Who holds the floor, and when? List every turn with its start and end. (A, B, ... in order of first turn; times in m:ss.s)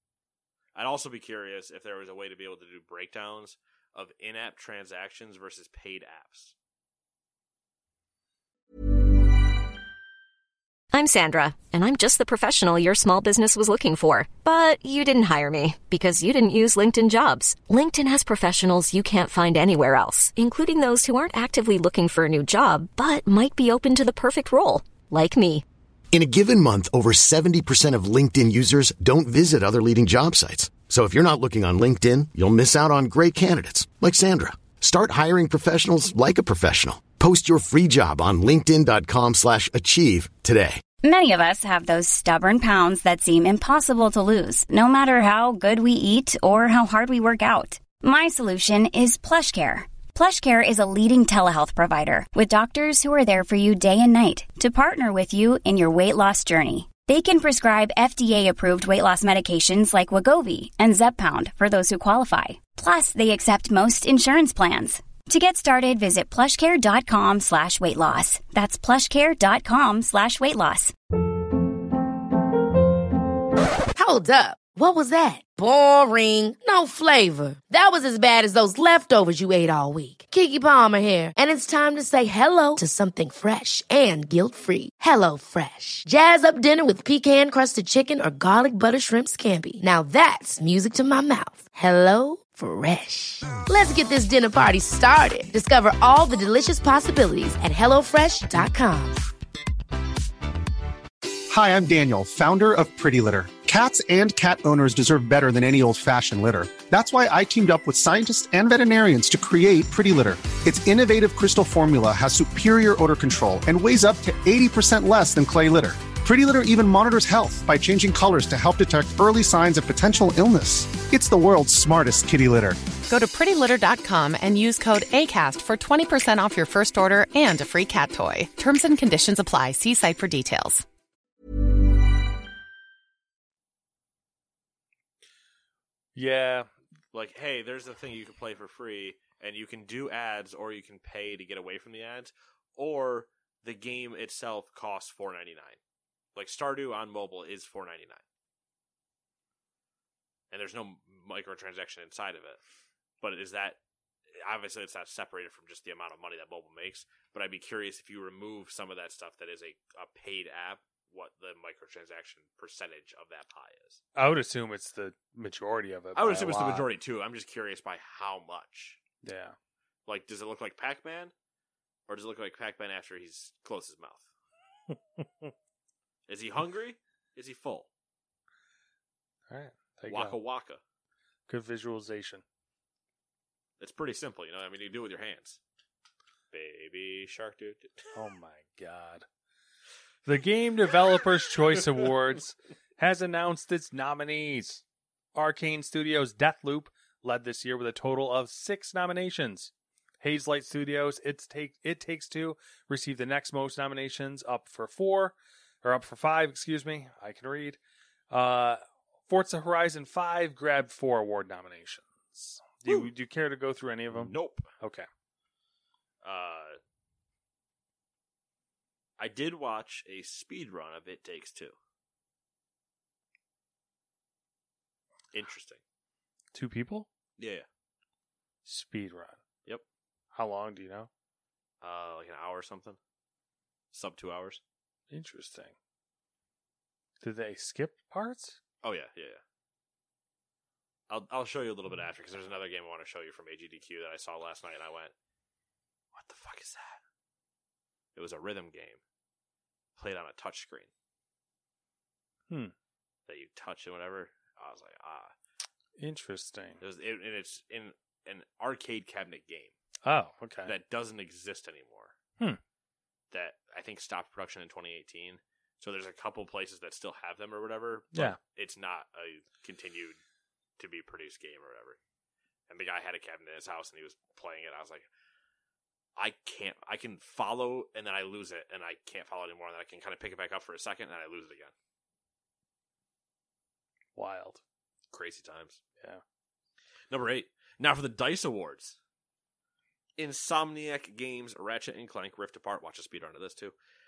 0:00.7-0:06.5 A
0:10.9-0:25.6 B
0:26.1-0:40.8 C
0:41.0-1:10.9 D
1:14.0-1:39.2 E
1:41.5-2:02.8 F
2:03.0-2:10.8 G
2:16.1-2:16.7 H
2:17.1-2:25.8 A
2:26.4-2:28.2 A
2:30.5-2:32.6 A
2:33.2-2:33.8 A
2:34.4-2:44.0 A
2:44.2-2:46.8 H
2:46.1-2:49.0 A
2:49.2-2:49.6 H
2:50.0-2:51.3 A
2:52.1-2:54.3 A
2:56.3-2:57.9 A
2:59.5-3:00.4 H
3:00.1-3:00.8 A
3:01.5-3:02.4 H
3:03.8-3:05.6 A
3:06.5-3:08.1 A
3:08.1-3:09.2 H
3:10.2-3:14.8 H
3:15.3-3:27.8 H
3:28.3-3:35.0 H
3:32.8-3:33.1 A
3:34.1-3:34.7 A
3:36.2-3:36.8 A
3:39.2-3:41.7 A
3:45.3-3:45.8 A
3:46.5-3:47.1 H
3:47.4-3:47.6 A
3:48.6-3:49.4 H
3:50.3-3:51.1 H
3:51.8-3:53.0 A
3:53.9-3:54.6 A
3:55.1-3:55.7 H
3:57.2-3:58.6 H
3:58.8-3:59.4 A
4:01.1-4:05.1 A
4:06.1-4:07.0 A
4:08.1-4:09.0 A
4:10.0-4:10.9 A
4:13.3-4:15.3 A
4:16.0-4:16.8 H
4:16.8-4:19.7 A
4:20.0-4:20.7 H
4:20.6-4:22.1 A
4:23.3-4:30.2 A
4:30.8-4:32.0 A
4:32.7-4:35.1 A
4:36.2-4:41.7 A
4:44.1-4:44.6 H
4:45.1-4:45.8 A
4:47.1-4:49.0 A
4:50.2-4:53.7 A